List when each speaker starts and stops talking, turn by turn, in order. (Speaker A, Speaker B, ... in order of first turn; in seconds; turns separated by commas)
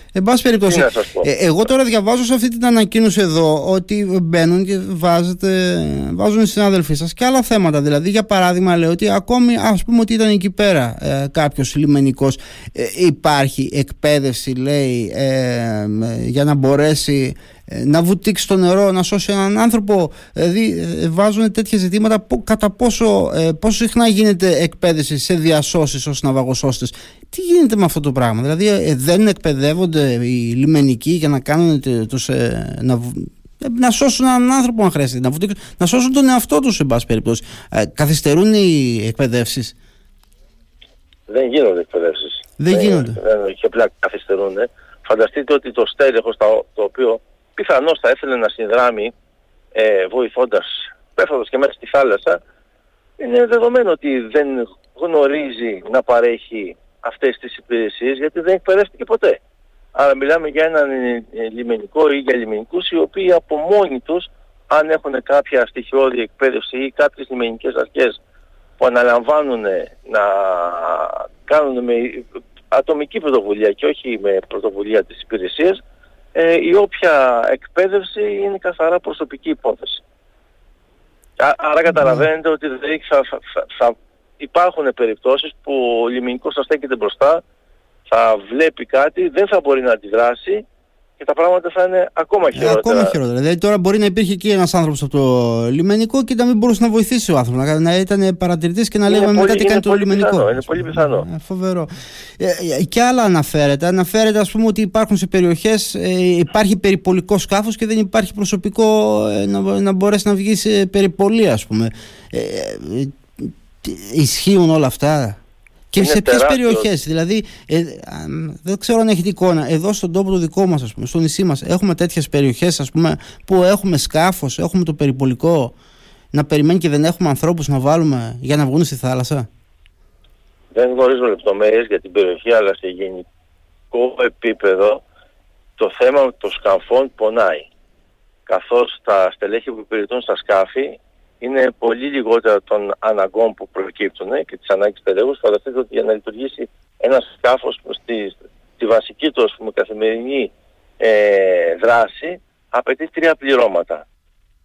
Speaker A: 0.1-39.7, Speaker B: 0.7-1.3, Speaker B: 41.3-49.1, Speaker A: 42.6-43.2, Speaker B: 49.7-52.4, Speaker B: 53.2-59.4, Speaker B: 59.9-68.2, Speaker B: 68.8-75.8, Speaker B: 76.3-80.0, Speaker B: 81.4-87.4, Speaker B: 88.1-90.6, Speaker B: 91.2-93.1, Speaker A: 92.5-115.4, Speaker B: 99.1-101.2, Speaker A: 115.9-125.7, Speaker B: 116.0-116.9, Speaker A: 126.3-129.5, Speaker B: 130.7-133.2, Speaker B: 133.9-135.0, Speaker B: 135.8-137.7, Speaker B: 138.5-154.0